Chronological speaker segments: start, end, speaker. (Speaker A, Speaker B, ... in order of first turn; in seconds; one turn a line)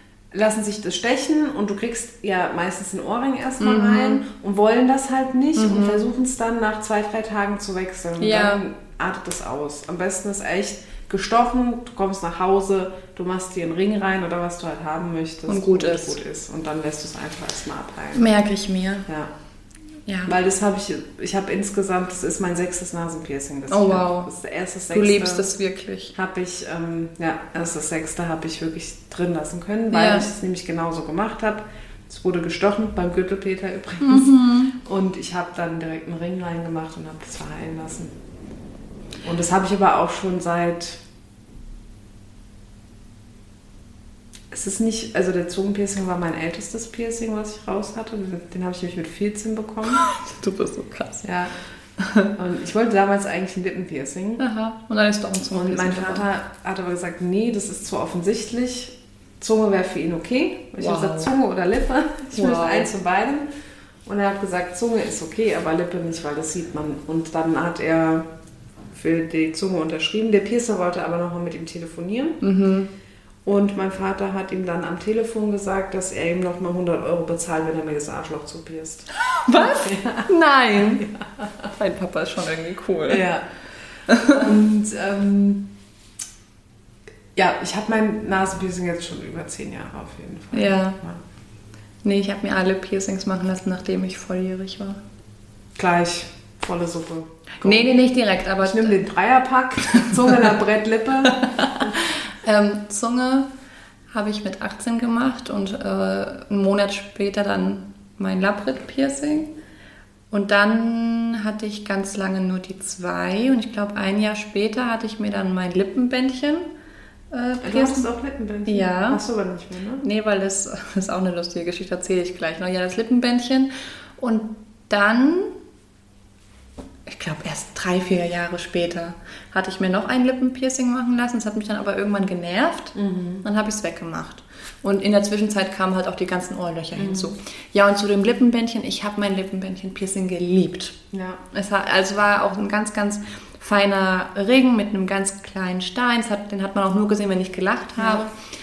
Speaker A: 0.3-18.3
Speaker B: 3.6-4.2
Speaker B: 5.5-6.1
Speaker B: 8.2-8.6
Speaker B: 15.5-16.2
Speaker B: 18.1-19.1
Speaker A: 19.1-19.3
Speaker B: 20.1-20.3
Speaker A: 20.2-25.5
Speaker B: 23.7-24.3
Speaker B: 24.9-26.1
Speaker A: 26.1-38.1
Speaker B: 29.9-30.3
Speaker B: 34.0-34.7
Speaker A: 39.2-41.0
Speaker A: 44.5-50.0
Speaker B: 49.9-51.2
Speaker A: 51.2-51.5
Speaker B: 52.0-52.3
Speaker A: 52.4-54.4
Speaker B: 54.4-56.2
Speaker A: 55.5-63.5
Speaker B: 60.8-61.3
Speaker B: 62.3-62.9
Speaker A: 64.0-68.2
Speaker A: 68.9-72.4
Speaker B: 72.4-72.9
Speaker A: 73.5-81.7
Speaker B: 79.3-81.1
Speaker B: 81.7-83.3
Speaker A: 83.1-83.5
Speaker B: 84.1-84.4
Speaker A: 84.2-85.7
Speaker A: 87.3-91.2
Speaker B: 90.5-91.0
Speaker B: 92.0-95.0
Speaker A: 95.8-97.9
Speaker B: 97.6-99.0
Speaker A: 98.6-102.0
Speaker B: 99.9-100.3
Speaker B: 101.3-103.5
Speaker B: 104.1-109.5
Speaker B: 110.3-116.7
Speaker B: 117.3-118.1
Speaker A: 117.6-120.0
Speaker B: 118.7-119.2
Speaker B: 120.0-125.5
Speaker B: 127.1-141.0
Speaker A: 132.9-133.4
Speaker A: 136.9-137.3
Speaker A: 141.1-141.4
Speaker B: 141.5-148.3
Speaker A: 148.0-148.3